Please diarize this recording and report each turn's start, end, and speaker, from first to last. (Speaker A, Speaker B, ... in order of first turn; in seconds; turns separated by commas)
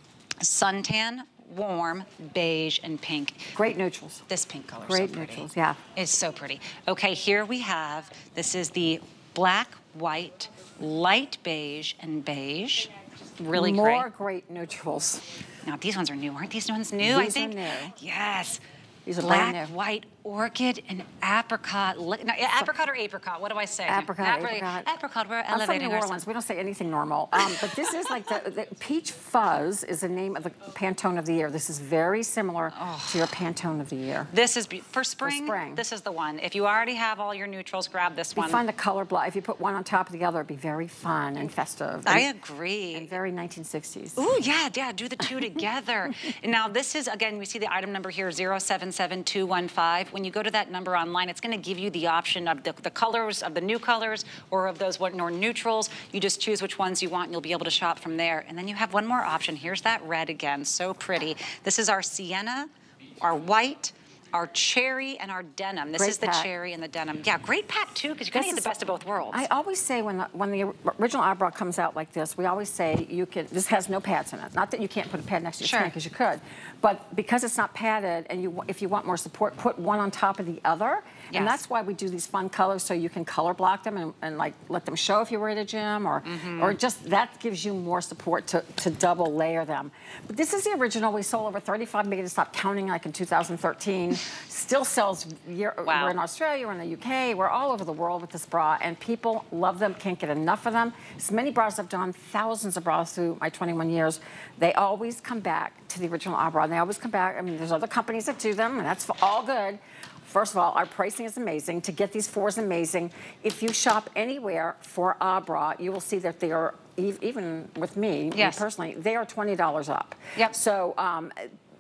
Speaker A: 0.4-3.5, Speaker B: 3.5-4.3, Speaker A: 4.3-14.1, Speaker B: 4.9-5.8, Speaker B: 13.5-15.2, Speaker A: 15.7-18.6, Speaker B: 17.0-17.9, Speaker B: 19.1-19.7, Speaker A: 19.2-26.2, Speaker B: 23.9-24.9, Speaker B: 25.5-34.3, Speaker A: 27.4-28.1, Speaker A: 32.7-33.2, Speaker A: 34.3-38.6, Speaker B: 35.2-35.8, Speaker B: 38.4-42.3, Speaker A: 42.1-43.1, Speaker B: 42.9-44.3, Speaker A: 44.2-62.7, Speaker A: 63.2-69.5, Speaker B: 66.0-66.5, Speaker B: 68.3-121.5, Speaker A: 75.6-75.9, Speaker A: 81.3-81.6, Speaker A: 86.2-86.8, Speaker A: 95.8-96.2, Speaker A: 118.3-118.6